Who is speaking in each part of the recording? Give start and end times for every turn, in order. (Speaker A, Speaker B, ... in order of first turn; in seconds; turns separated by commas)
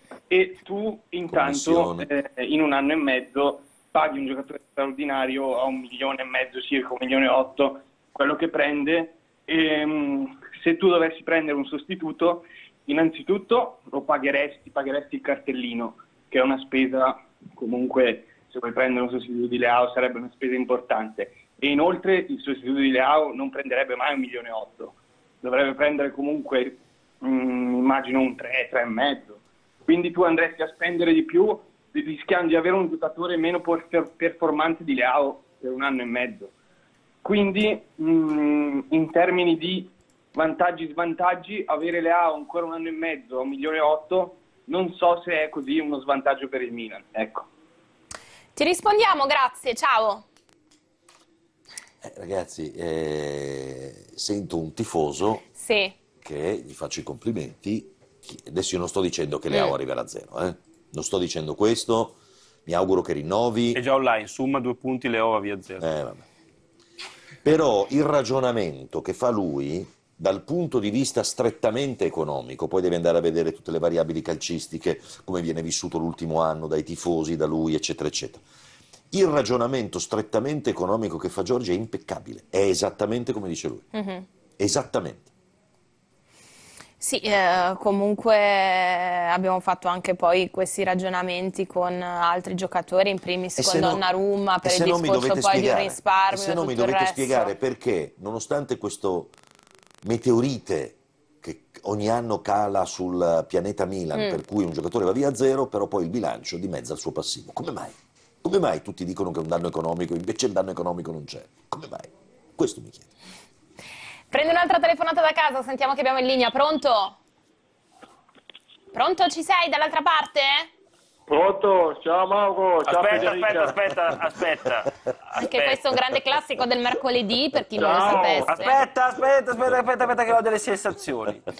Speaker A: 0.3-36.5, Speaker B: 1.3-2.1, Speaker A: 37.2-47.5, Speaker C: 48.6-50.3, Speaker B: 52.0-55.5, Speaker C: 55.5-56.0, Speaker B: 56.2-63.8, Speaker C: 59.5-59.8, Speaker D: 63.7-65.9, Speaker B: 65.8-66.3, Speaker B: 67.4-78.4, Speaker B: 79.1-83.9, Speaker C: 83.9-84.3, Speaker B: 84.6-85.3, Speaker C: 87.0-97.5, Speaker B: 93.6-94.1, Speaker B: 94.6-99.3, Speaker B: 100.0-113.1, Speaker C: 104.1-104.4, Speaker C: 114.3-117.2, Speaker C: 118.9-120.7, Speaker E: 121.3-123.7, Speaker D: 122.8-125.9, Speaker C: 125.4-128.8, Speaker E: 127.8-128.5, Speaker D: 128.5-131.5